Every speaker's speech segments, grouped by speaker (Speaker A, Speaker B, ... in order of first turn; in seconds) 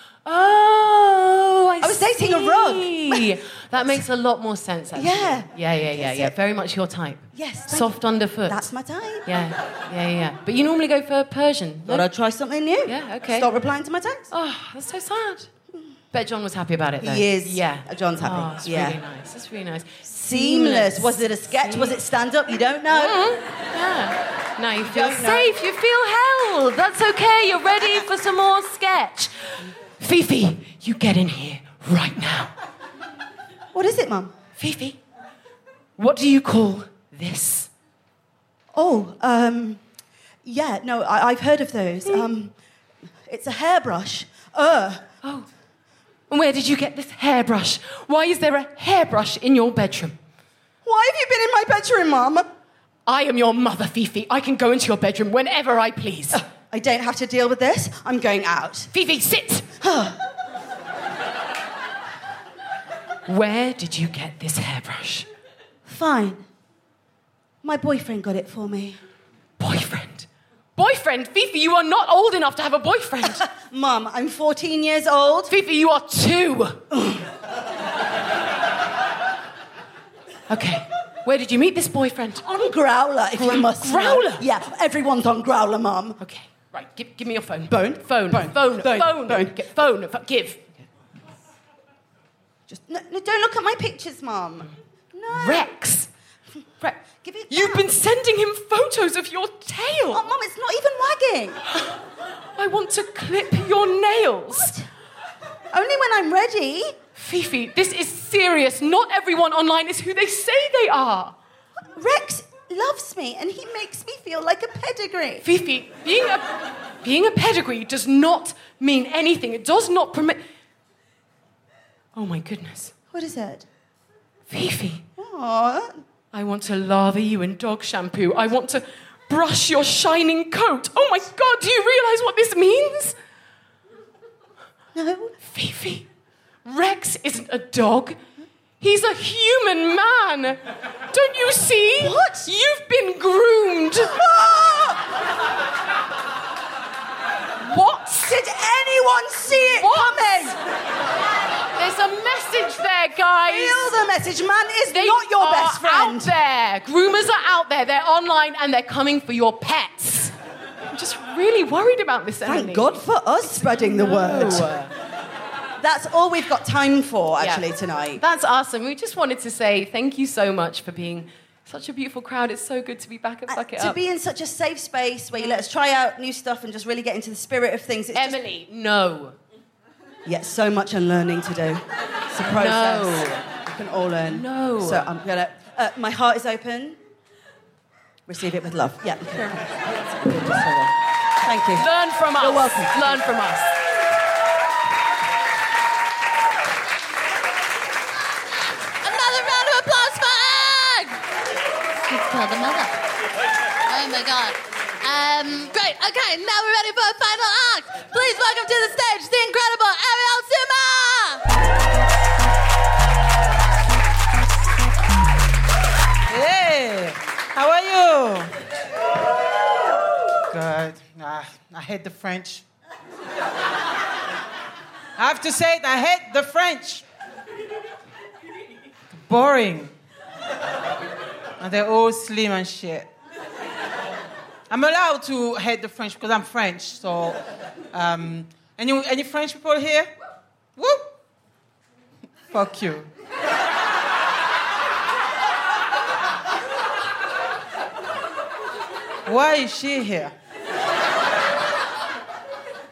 Speaker A: 0.2-8.7, 9.2-12.1, 12.8-13.5, 14.3-15.6, 16.1-22.0, 22.9-32.5, 34.6-35.0, 36.0-37.7, 45.2-45.5, 46.3-50.2, 53.1-56.4, 58.9-59.7, 63.3-65.3, 69.6-73.5, 75.5-76.9, 80.5-82.7, 83.4-84.5, 86.2-90.9, 95.3-96.1, 97.5-100.3, 102.6-104.8, 107.2-111.4, 115.4-120.4, 122.2-123.0, 124.5-125.1, 126.3-133.2, 135.4-136.1, 136.7-138.2, 138.8-144.2, 147.7-148.4, 149.8-150.6, 151.8-154.0, 154.9-160.3, 160.9-164.9, 167.4-174.0, 178.1-179.4, 182.4-183.5, 184.3-185.1, 191.8-193.8
Speaker B: 1.8-3.4, 5.0-6.3, 7.3-9.5, 11.8-14.3, 17.0-19.0, 20.1-23.2, 24.8-25.5, 33.7-34.4, 38.7-39.8, 40.4-42.6, 43.2-45.1, 50.8-52.5, 56.3-58.9, 59.8-60.2, 65.9-66.4, 67.6-69.0, 73.4-75.5, 76.9-77.3, 82.4-86.2, 87.7-89.9, 92.7-95.7, 96.8-98.0, 100.1-101.6, 105.7-107.0, 112.0-115.5, 123.1-123.7, 125.2-126.0, 134.9-135.3, 142.0-142.5, 144.1-145.1, 148.3-150.6, 153.5-156.3, 162.5-164.7, 165.8-168.2, 173.5-178.4, 180.3-187.0, 188.3-193.3
Speaker C: 199.0-201.2, 202.1-203.0, 203.9-211.4
Speaker D: 216.3-218.5, 220.5-222.7, 225.2-227.1, 229.1-229.9, 231.6-233.1, 234.7-237.4, 237.9-240.1, 240.8-241.1, 242.5-243.1, 249.3-250.3